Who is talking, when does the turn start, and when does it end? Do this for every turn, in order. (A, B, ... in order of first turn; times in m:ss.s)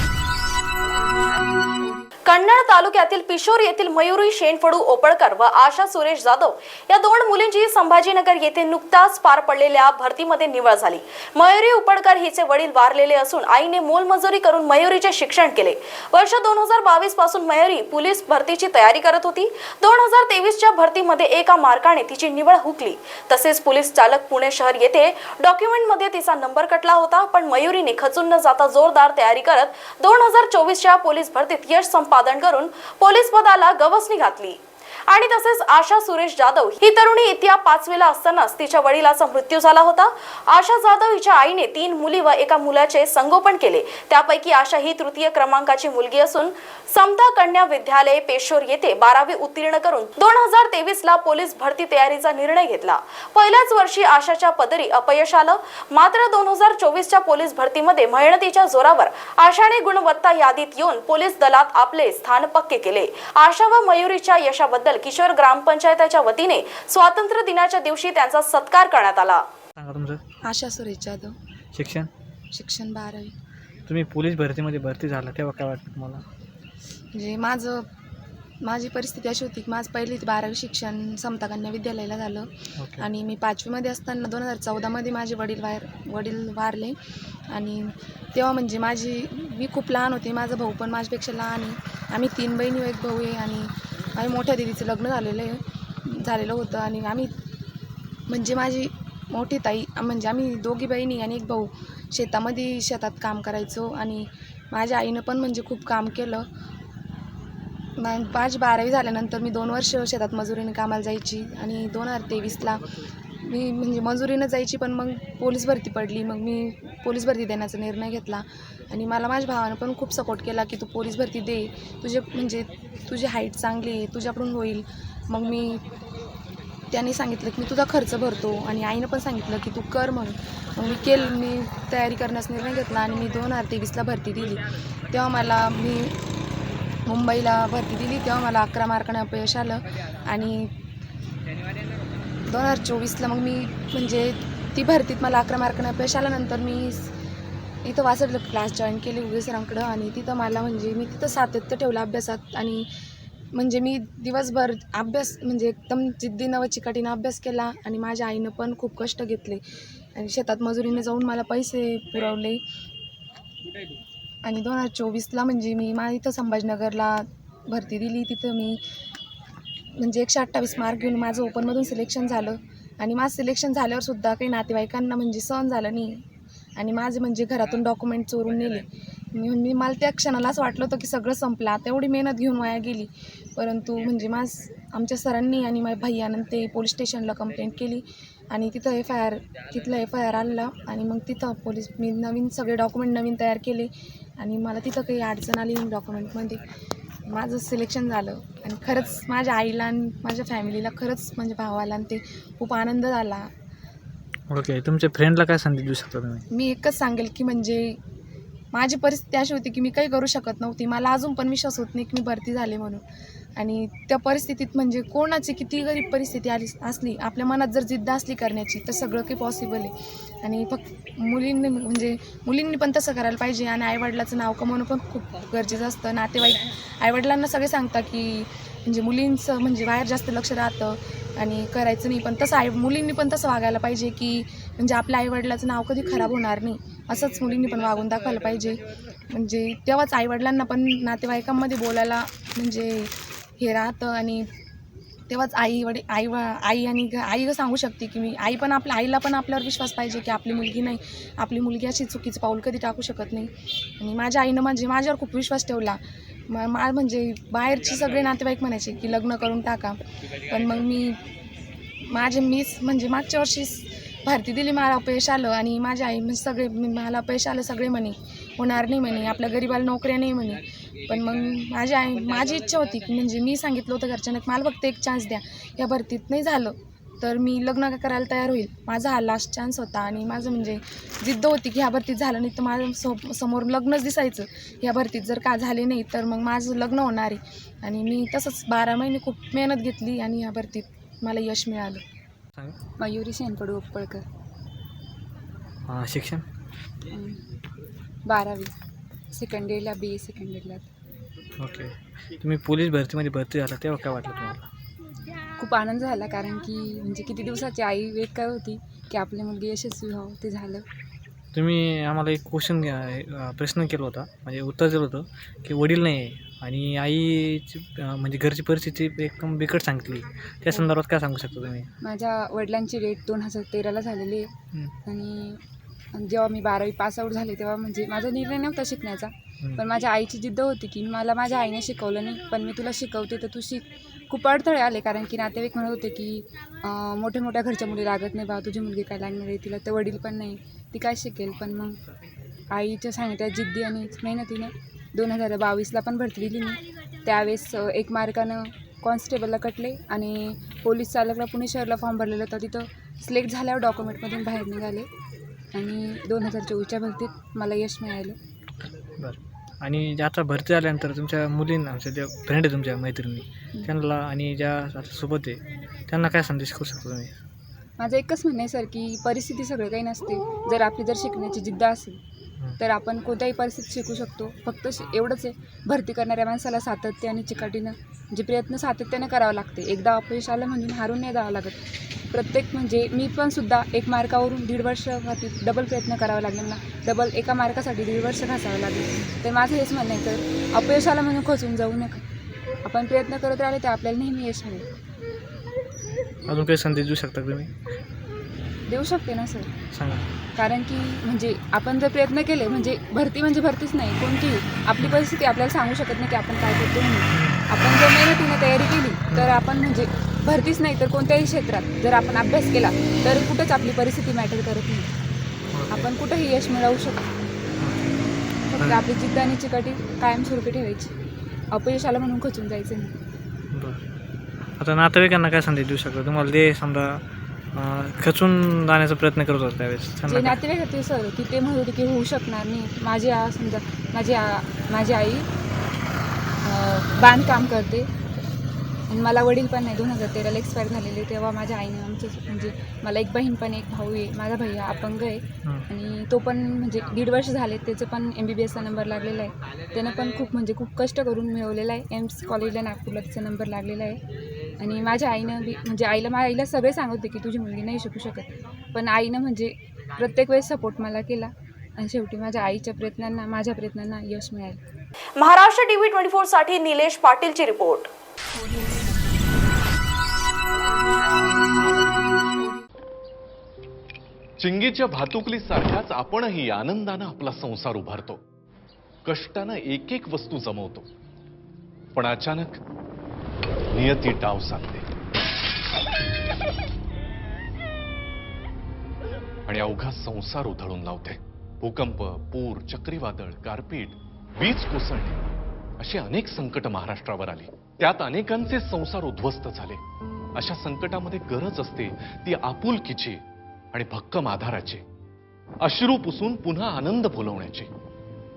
0:02.3-1:09.4 A
1:09.8-1:10.2 B
1:10.4-1:11.4 C
1:11.7-1:12.1 B
1:12.5-1:13.3 C
1:13.9-1:16.2 B
1:17.1-1:17.9 C
1:18.6-1:27.0 C
1:22.8-1:23.1 B
1:27.5-1:37.3 C
1:38.3-1:46.4 C
1:48.0-1:52.9 C
1:53.4-2:05.9 C
2:06.9-2:16.2 C
2:17.1-2:20.7 C
2:22.5-2:27.1 C
2:27.8-2:32.9 C
2:33.5-2:39.6 C
2:40.2-2:42.6 C
2:44.4-2:48.8 C
2:50.0-2:56.2 C
2:56.8-3:16.6 C
3:17.3-3:23.5 C
3:24.5-3:26.4 B
3:26.5-3:28.0 C
3:28.7-3:33.0 C
3:33.6-4:04.5 C
4:05.3-4:21.2 C
4:22.0-4:52.0 C
4:53.0-4:54.2 D
4:55.9-4:56.5 B
4:57.1-4:57.4 D
4:58.2-4:58.7 D
4:59.3-5:00.9 D
5:01.6-5:04.7 B
5:05.6-5:10.8 D
5:11.5-5:21.9 B
5:22.0-5:24.5 D
5:25.0-5:25.6 D
5:26.1-5:42.0 D
5:42.7-5:55.1 D
5:55.7-5:58.4 D
5:59.2-6:07.3 B
6:08.0-6:12.2 D
6:12.8-6:32.2 D
6:32.8-6:34.9 D
6:36.5-6:37.7 B
6:38.9-6:39.7 D
6:39.9-6:40.3 B
6:40.5-6:55.1 D
6:47.3-6:47.6 B
6:55.7-6:56.1 B
6:55.9-6:57.3 D
6:57.8-6:59.0 B
6:58.7-7:01.1 D
7:01.7-7:03.1 D
7:03.7-7:04.0 B
7:04.8-7:10.6 B
7:10.3-7:15.5 D
7:16.6-7:18.1 D
7:19.1-7:34.2 D
7:34.8-7:44.8 D
7:45.4-7:48.1 A
7:54.6-7:58.4 E
7:59.3-8:01.1 E
8:02.1-8:02.8 E
8:03.9-8:05.0 E
8:09.7-8:15.4 E
8:16.0-8:20.0 E
8:20.6-8:23.4 E
8:23.9-8:25.0 E
8:25.8-8:27.9 E